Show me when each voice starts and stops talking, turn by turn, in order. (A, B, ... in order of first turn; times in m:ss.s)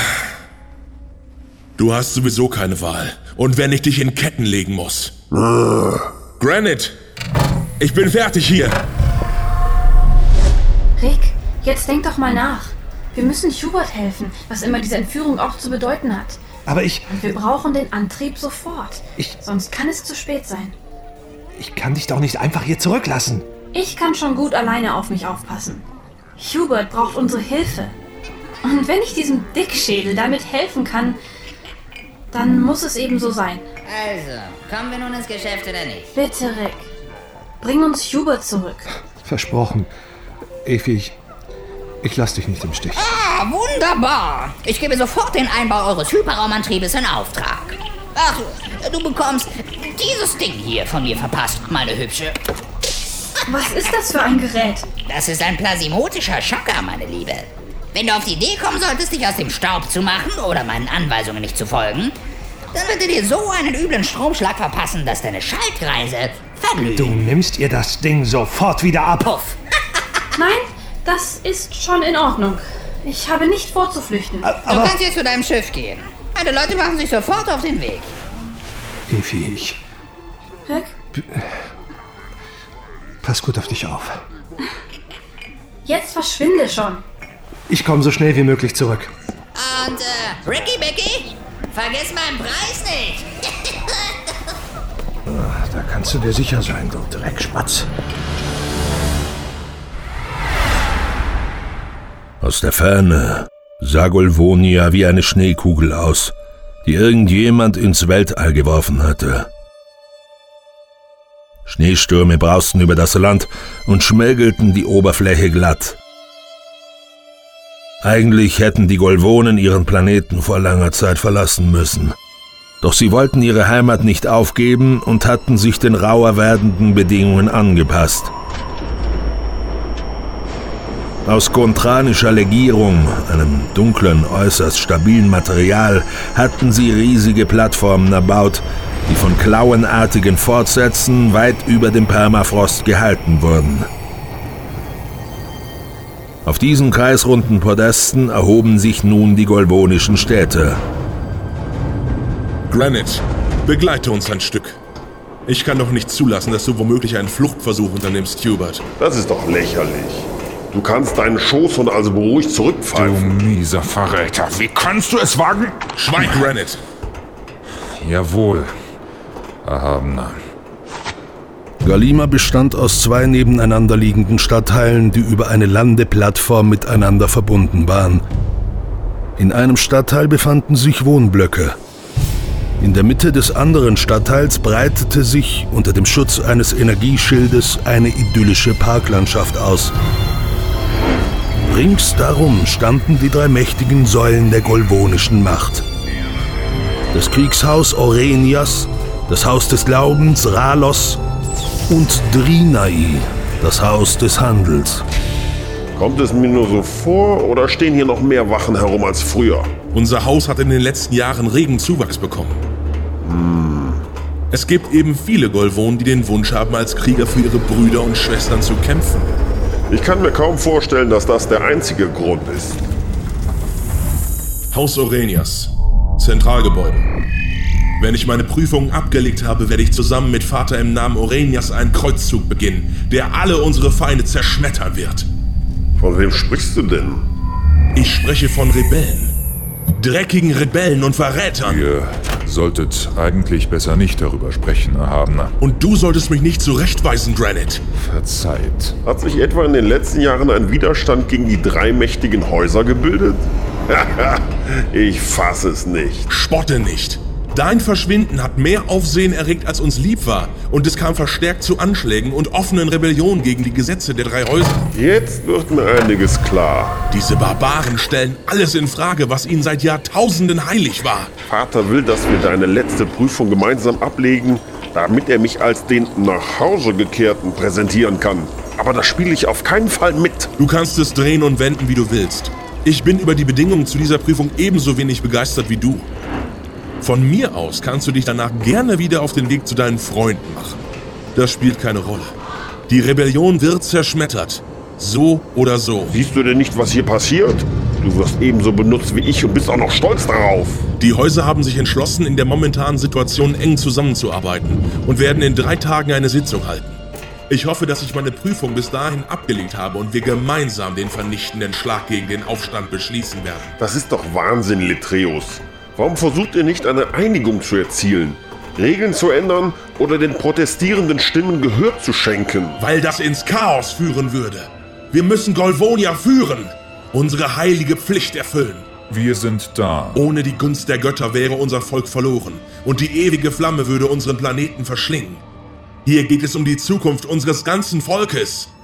0:01.8-0:05.1 A
0:05.3-0:06.1 B
0:06.4-0:07.0 A
0:07.8-0:08.8 A
0:11.0-0:16.4 C
0:16.7-0:17.0 D
0:17.1-0:20.7 C
0:21.6-0:23.5 D
0:23.7-0:25.8 C
0:26.4-0:28.0 C
0:28.6-0:31.2 C
0:32.3-0:33.6 C
0:33.8-0:36.1 E
0:36.1-0:36.9 C
0:37.6-0:38.8 C
0:39.2-0:39.9 D
0:40.6-0:41.2 D
0:42.0-0:43.1 D
0:42.9-0:52.4 E
0:53.5-0:54.9 C
0:55.0-1:02.1 E
1:02.7-1:07.2 E
1:06.8-1:09.6 D
1:10.4-1:14.5 C
1:14.4-1:15.0 D
1:14.6-1:18.1 E
1:19.1-1:19.8 D
1:21.1-1:21.5 D
1:23.2-1:24.2 D
1:25.8-1:27.0 C
1:27.7-1:29.1 D
1:29.5-1:34.3 E
1:35.3-1:37.9 D
1:42.4-1:49.5 F
1:51.6-1:56.0 F
1:58.0-2:02.2 F
2:02.8-2:08.3 F
2:11.2-2:23.9 F
2:26.4-2:30.8 F
2:32.7-2:34.8 A
2:35.5-2:38.8 A
2:39.0-2:43.4 B
2:42.9-2:46.5 G
2:46.0-2:46.8 A
2:48.0-2:48.7 G
2:49.6-2:50.4 G
2:51.8-2:58.2 F
2:59.4-3:01.8 F
3:02.8-3:09.9 F
3:11.6-3:15.8 F
3:17.1-3:21.2 F
3:21.9-3:25.0 F
3:26.0-3:29.7 B
3:29.9-3:32.6 A
3:33.2-3:34.0 B
3:34.5-3:39.3 A
3:39.9-3:42.8 B
3:44.7-3:47.1 A
3:48.0-3:55.3 A
3:56.0-3:57.2 B
3:57.9-3:59.3 A
4:00.0-4:01.8 A
4:01.6-4:05.5 G
4:05.6-4:07.8 A
4:08.0-4:08.9 G
4:09.0-4:16.3 B
4:16.3-4:24.8 A
4:24.9-4:27.0 B
4:27.1-4:31.3 A
4:31.5-4:40.5 B
4:40.6-4:46.1 A
4:47.0-4:50.8 A
4:51.3-4:52.3 A
4:52.9-4:56.2 A
4:56.1-5:00.8 B
5:01.0-5:13.7 A
5:13.8-5:22.8 B
5:22.8-5:28.9 A
5:29.1-5:30.3 G
5:30.1-5:35.4 A
5:36.0-5:38.7 A